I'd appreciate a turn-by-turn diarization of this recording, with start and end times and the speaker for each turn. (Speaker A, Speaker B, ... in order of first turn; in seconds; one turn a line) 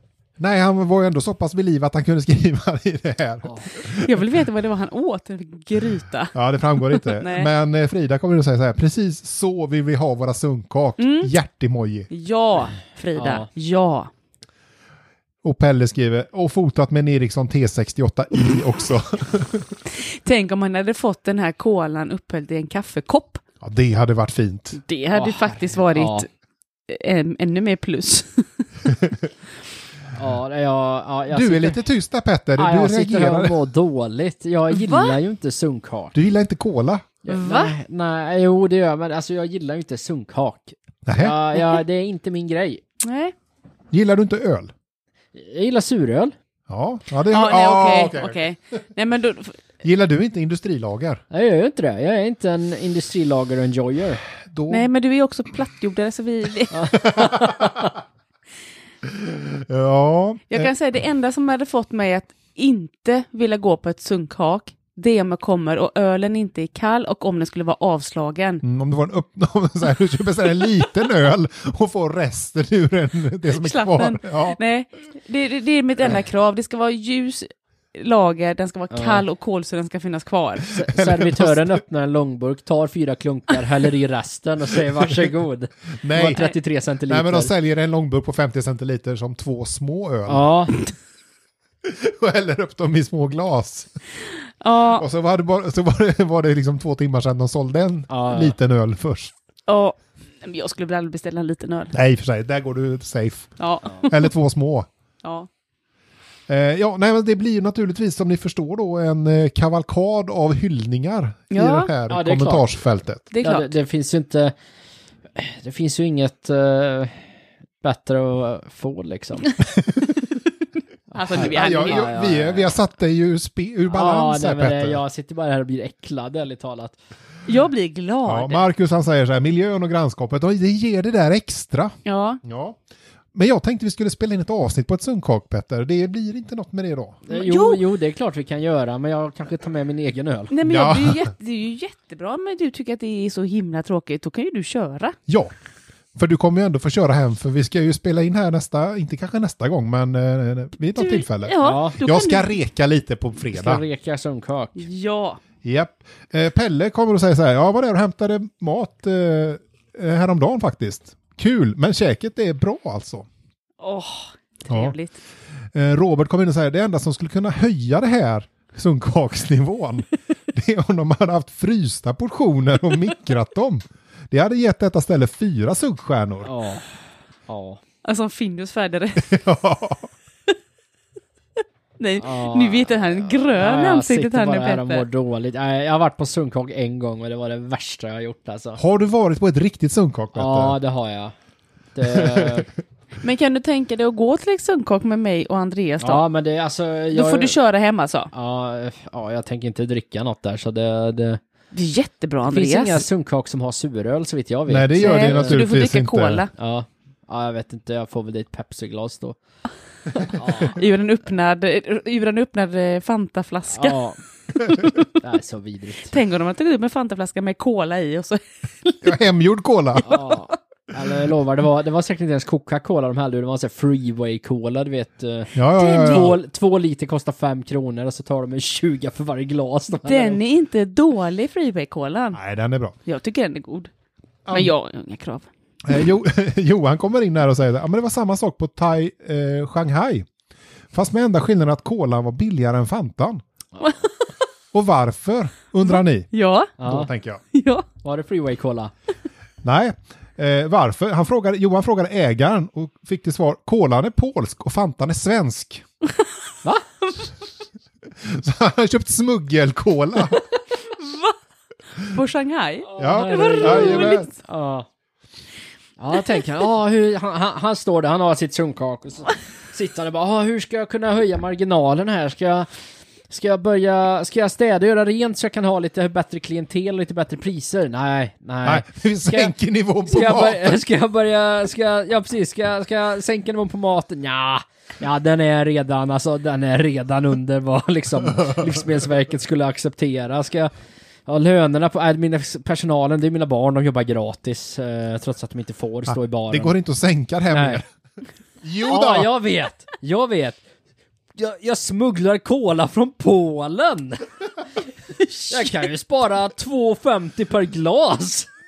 Speaker A: 0.4-4.2
Speaker B: 4.0-7.5
Speaker A: 6.3-12.1
Speaker B: 11.0-11.3
Speaker B: 12.1-14.1
Speaker C: 13.2-13.5
Speaker A: 15.4-19.7
Speaker B: 19.9-23.4
Speaker A: 23.6-24.8
Speaker B: 24.7-26.3
Speaker C: 25.1-26.2
Speaker B: 26.9-29.1
Speaker C: 30.1-31.8
Speaker A: 31.3-33.6
Speaker C: 32.5-36.1
Speaker B: 34.7-35.2
Speaker A: 36.1-37.1
Speaker C: 37.2-42.8
Speaker B: 37.3-37.8
Speaker A: 41.0-41.4
Speaker B: 43.0-43.3
Speaker A: 43.9-44.7
Speaker C: 45.3-46.3
Speaker A: 46.7-48.4
Speaker B: 47.3-49.6
Speaker A: 49.8-51.2
Speaker C: 51.3-54.2
Speaker A: 54.5-54.9
Speaker B: 54.7-57.2
Speaker C: 56.7-57.9
Speaker A: 57.1-57.6
Speaker A: 59.0-60.7
Speaker B: 60.5-68.6
Speaker A: 68.6-74.6
Speaker B: 73.5-80.8
Speaker C: 78.9-79.2
Speaker C: 80.7-87.5
Speaker A: 80.9-81.8
Speaker A: 86.0-86.4
Speaker A: 87.1-90.5
Speaker C: 90.3-90.8
Speaker A: 91.8-93.9
Speaker B: 94.6-95.0
Speaker A: 94.9-99.3
Speaker C: 98.1-98.5
Speaker B: 99.7-101.9
Speaker A: 101.9-104.9
Speaker B: 103.6-104.3
Speaker B: 105.2-105.5
Speaker A: 106.5-113.3
Speaker B: 111.5-111.9
Speaker C: 112.1-112.6
Speaker B: 113.3-113.7
Speaker C: 113.4-114.5
Speaker C: 115.3-117.2
Speaker C: 117.8-119.5
Speaker A: 119.8-120.1
Speaker C: 121.1-122.7
Speaker B: 121.1-122.2
Speaker A: 121.3-125.0
Speaker C: 123.9-127.0
Speaker B: 127.5-128.6
Speaker A: 128.2-132.8
Speaker B: 132.0-132.4
Speaker A: 133.3-137.2
Speaker B: 137.3-137.8
Speaker C: 137.3-140.5
Speaker B: 140.5-145.2
Speaker A: 140.7-141.3
Speaker A: 146.2-153.8
Speaker B: 150.9-152.6
Speaker C: 151.6-152.0
Speaker C: 153.5-154.8
Speaker B: 154.8-155.4
Speaker A: 155.6-163.3
Speaker B: 163.8-165.2
Speaker A: 164.7-164.9
Speaker A: 165.7-176.5
Speaker C: 176.4-176.9
Speaker C: 177.5-177.8
Speaker B: 178.0-179.3
Speaker A: 179.2-180.1
Speaker B: 182.0-185.1
Speaker C: 182.2-188.8
Speaker A: 188.8-190.8
Speaker C: 190.3-191.3
Speaker C: 191.9-192.7
Speaker A: 192.1-192.7
Speaker B: 193.2-196.2
Speaker C: 196.0-197.6
Speaker B: 197.1-198.3
Speaker C: 198.3-201.4
Speaker B: 201.7-203.0
Speaker C: 202.5-205.6
Speaker A: 204.7-206.4
Speaker B: 205.0-206.5
Speaker C: 206.6-209.4
Speaker C: 210.3-210.8
Speaker B: 210.4-214.0
Speaker C: 213.7-214.2
Speaker B: 214.6-215.0
Speaker C: 215.2-216.1
Speaker B: 216.0-219.1
Speaker A: 219.0-220.2
Speaker B: 219.9-220.3
Speaker C: 220.1-230.4
Speaker A: 225.5-226.4
Speaker B: 225.8-226.4
Speaker B: 230.0-232.4
Speaker A: 232.3-232.9
Speaker B: 233.1-233.9
Speaker A: 234.4-234.7
Speaker B: 234.5-235.5
Speaker A: 235.8-240.3
Speaker A: 240.9-243.4
Speaker A: 244.7-246.3
Speaker B: 245.8-246.7
Speaker C: 246.8-247.1
Speaker A: 246.8-247.4
Speaker B: 247.5-247.8
Speaker C: 248.0-248.9
Speaker A: 249.6-255.8
Speaker A: 258.2-260.4
Speaker B: 260.9-261.3
Speaker B: 262.0-264.3
Speaker C: 262.9-264.9
Speaker A: 263.0-264.3
Speaker C: 266.0-272.7
Speaker C: 273.3-279.5
Speaker A: 278.6-280.7
Speaker C: 280.1-290.7
Speaker C: 291.2-296.7
Speaker A: 296.1-297.8
Speaker C: 297.5-297.8
Speaker A: 298.6-299.3
Speaker C: 298.8-300.6
Speaker C: 301.4-304.2
Speaker B: 305.3-305.8
Speaker C: 305.5-308.5